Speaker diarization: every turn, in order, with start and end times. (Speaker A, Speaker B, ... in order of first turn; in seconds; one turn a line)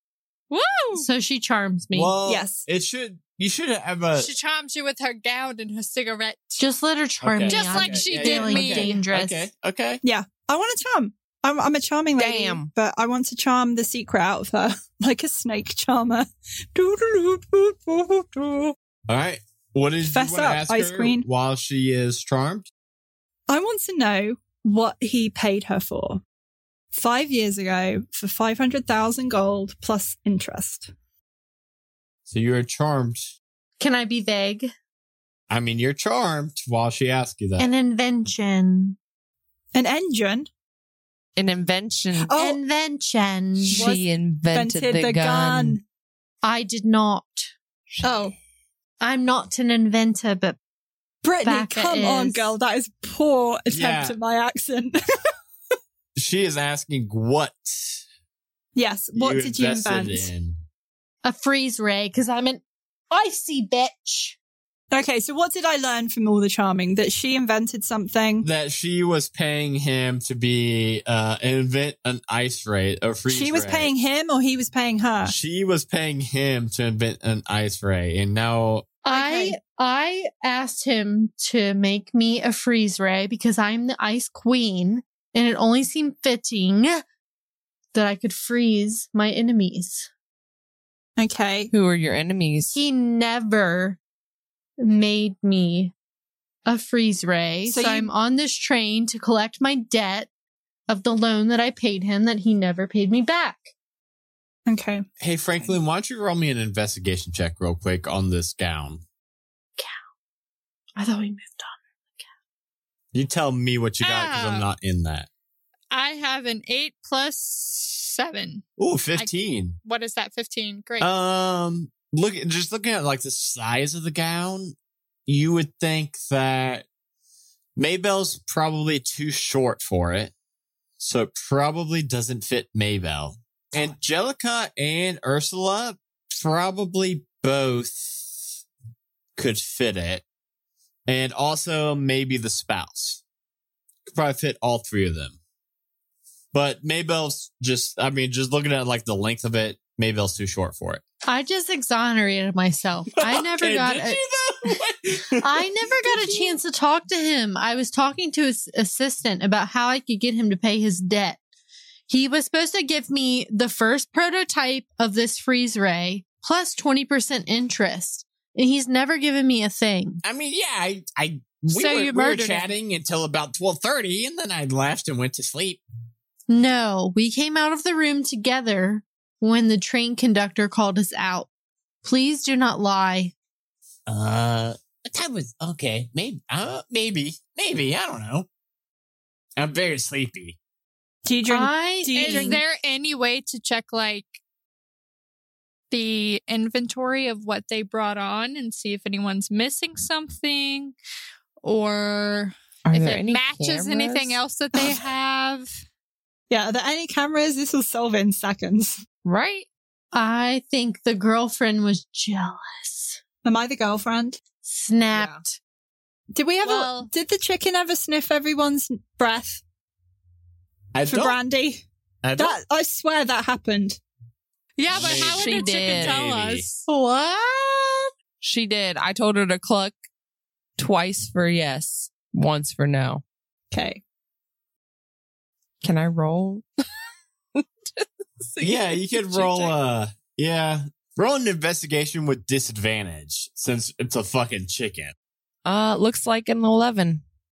Speaker A: 0.5-1.1
Speaker B: 0.9-2.1
Speaker C: 1.9-4.3
Speaker D: 2.2-2.6
Speaker A: 4.2-6.6
Speaker B: 6.6-9.5
Speaker C: 7.2-10.0
Speaker A: 7.5-9.0
Speaker D: 10.0-18.7
Speaker E: 12.2-12.7
Speaker C: 19.1-22.7
Speaker D: 20.0-21.2
Speaker D: 23.5-26.2
Speaker D: 26.9-30.9
Speaker C: 32.3-33.3
Speaker B: 33.8-34.7
Speaker C: 35.5-37.7
Speaker B: 37.6-39.0
Speaker D: 39.7-40.5
Speaker E: 41.4-42.3
Speaker D: 42.2-42.6
Speaker B: 42.4-43.9
Speaker E: 43.7-45.8
Speaker D: 43.7-45.8
Speaker B: 46.4-47.5
Speaker D: 48.0-48.3
Speaker B: 49.0-50.6
Speaker D: 51.2-55.0
Speaker B: 51.4-52.5
Speaker C: 53.7-54.2
Speaker C: 56.1-58.0
Speaker D: 58.7-60.3
Speaker C: 59.1-60.6
Speaker B: 61.2-64.4
Speaker D: 64.9-68.5
Speaker C: 68.4-73.9
Speaker D: 73.3-75.3
Speaker C: 75.2-78.9
Speaker B: 79.0-87.0
Speaker D: 79.1-79.6
Speaker B: 87.9-90.1
Speaker D: 91.2-91.7
Speaker E: 91.7-92.8
Speaker B: 92.7-94.0
Speaker B: 94.8-95.9
Speaker B: 96.7-100.3
Speaker D: 97.7-98.1
Speaker B: 100.9-103.7
Speaker D: 104.7-105.0
Speaker C: 105.2-109.0
Speaker B: 111.0-112.2
Speaker C: 113.1-115.3
Speaker A: 114.0-114.7
Speaker A: 115.9-118.6
Speaker C: 118.8-119.8
Speaker A: 119.8-121.1
Speaker C: 121.0-124.7
Speaker C: 125.3-126.9
Speaker C: 127.8-130.3
Speaker C: 131.0-138.4
Speaker C: 139.4-140.2
Speaker C: 141.1-143.2
Speaker C: 144.1-145.4
Speaker C: 146.5-151.0
Speaker B: 151.2-154.2
Speaker C: 153.1-155.7
Speaker B: 155.4-161.4
Speaker B: 162.1-170.2
Speaker C: 170.2-175.8
Speaker B: 171.7-172.7
Speaker B: 176.5-181.5
Speaker B: 182.0-183.3
Speaker C: 184.1-188.5
Speaker C: 189.6-190.6
Speaker D: 191.2-192.6
Speaker B: 191.5-192.6
Speaker A: 192.2-194.4
Speaker A: 195.9-200.9
Speaker A: 201.6-205.7
Speaker E: 202.9-204.4
Speaker D: 206.5-209.1
Speaker E: 209.2-209.7
Speaker B: 210.1-213.2
Speaker D: 213.4-214.4
Speaker B: 214.6-215.6
Speaker E: 215.1-215.4
Speaker D: 216.3-219.6
Speaker A: 216.6-217.1
Speaker C: 220.9-221.4
Speaker D: 221.1-221.8
Speaker C: 222.2-222.6
Speaker D: 222.4-224.0
Speaker A: 224.8-226.9
Speaker C: 224.9-226.7
Speaker E: 224.9-226.2
Speaker B: 226.9-228.1
Speaker E: 228.4-230.0
Speaker E: 230.8-233.2
Speaker D: 233.7-234.0
Speaker E: 235.8-236.7
Speaker E: 237.6-239.8
Speaker C: 238.6-245.1
Speaker E: 245.6-247.2